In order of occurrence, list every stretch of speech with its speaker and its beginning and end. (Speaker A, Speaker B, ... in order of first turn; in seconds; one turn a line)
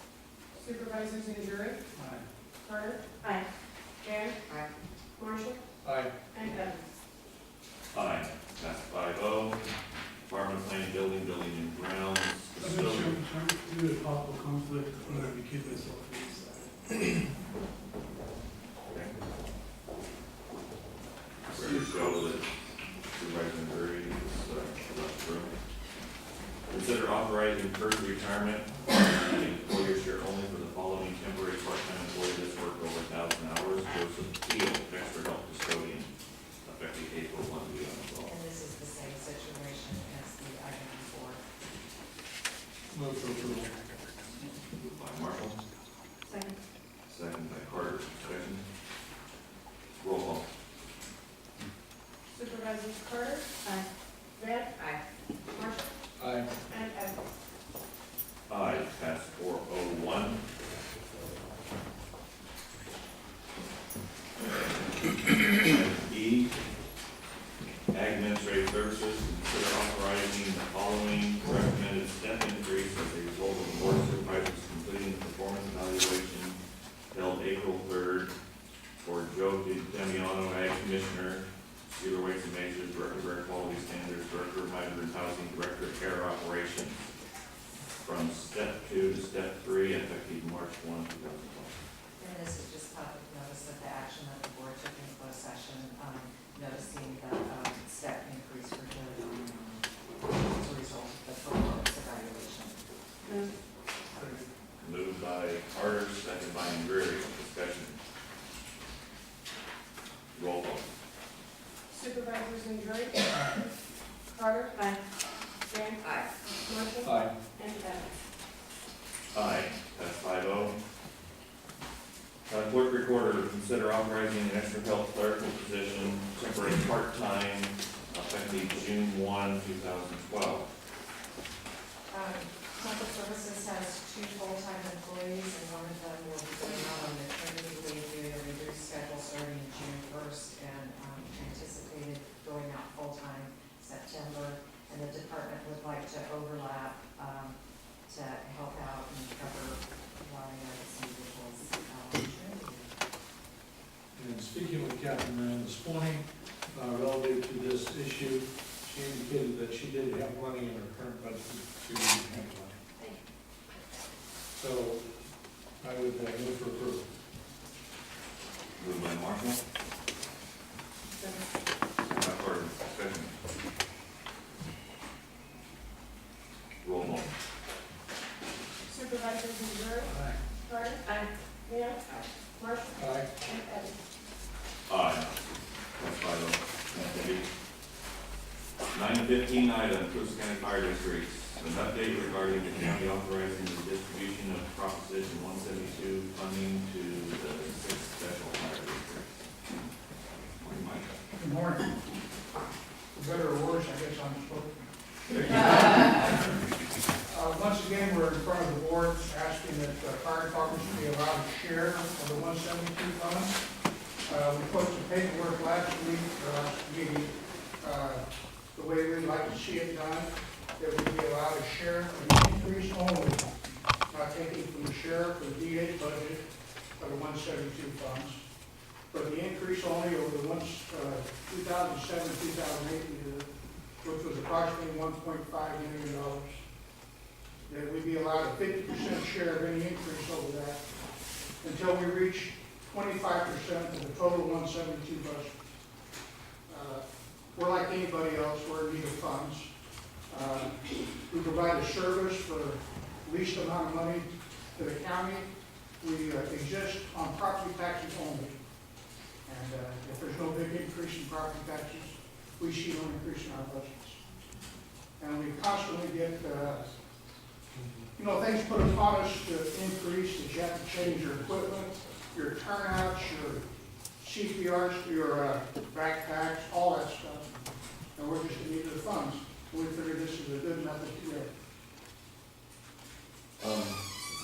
Speaker A: 0.5-1.8
Speaker B: 1.9-2.2
Speaker A: 2.6-3.4
Speaker A: 4.0-4.5
Speaker A: 5.2-5.6
Speaker B: 5.8-6.1
Speaker A: 6.3-6.8
Speaker C: 7.9-9.6
Speaker C: 10.3-13.2
Speaker D: 12.6-17.2
Speaker C: 18.9-19.1
Speaker C: 21.5-22.4
Speaker D: 21.6-22.1
Speaker C: 23.1-25.5
Speaker C: 26.7-38.3
Speaker E: 38.3-41.4
Speaker B: 42.9-43.7
Speaker C: 44.8-45.6
Speaker C: 47.1-48.6
Speaker C: 50.0-50.5
Speaker A: 52.3-53.8
Speaker A: 54.4-55.0
Speaker A: 55.5-55.9
Speaker B: 56.2-56.5
Speaker A: 56.7-57.2
Speaker C: 58.5-60.4
Speaker C: 65.6-66.5
Speaker C: 67.9-76.6
Speaker C: 77.1-78.3
Speaker C: 79.0-86.9
Speaker C: 88.0-91.8
Speaker E: 92.2-102.8
Speaker A: 103.2-103.5
Speaker D: 104.2-104.4
Speaker C: 104.8-108.0
Speaker C: 110.3-110.9
Speaker A: 111.9-113.3
Speaker A: 114.3-115.0
Speaker A: 115.7-118.1
Speaker B: 117.0-117.3
Speaker C: 119.3-120.8
Speaker C: 122.5-130.7
Speaker E: 132.1-147.6
Speaker E: 148.1-152.9
Speaker B: 154.1-162.8
Speaker B: 164.6-165.0
Speaker B: 165.8-167.1
Speaker C: 168.8-169.6
Speaker C: 172.1-173.3
Speaker C: 176.8-177.3
Speaker A: 178.9-184.0
Speaker B: 180.1-180.3
Speaker B: 182.9-183.3
Speaker C: 184.9-185.3
Speaker C: 185.9-187.4
Speaker C: 188.9-199.3
Speaker C: 200.6-201.1
Speaker F: 201.4-201.9
Speaker F: 203.1-204.7
Speaker F: 205.5-206.3
Speaker F: 207.3-213.6
Speaker F: 214.2-218.2
Speaker F: 218.7-223.5
Speaker F: 224.1-226.4
Speaker F: 227.0-228.4
Speaker F: 229.1-233.5
Speaker F: 234.0-236.6
Speaker F: 237.7-240.8
Speaker F: 241.6-245.5
Speaker F: 246.7-247.0
Speaker F: 247.5-249.7
Speaker F: 250.3-255.5
Speaker F: 256.0-258.5
Speaker F: 259.4-264.2
Speaker F: 265.2-266.8
Speaker B: 267.8-268.1
Speaker F: 268.1-273.6
Speaker F: 274.2-277.5
Speaker F: 278.1-281.5
Speaker C: 283.6-284.0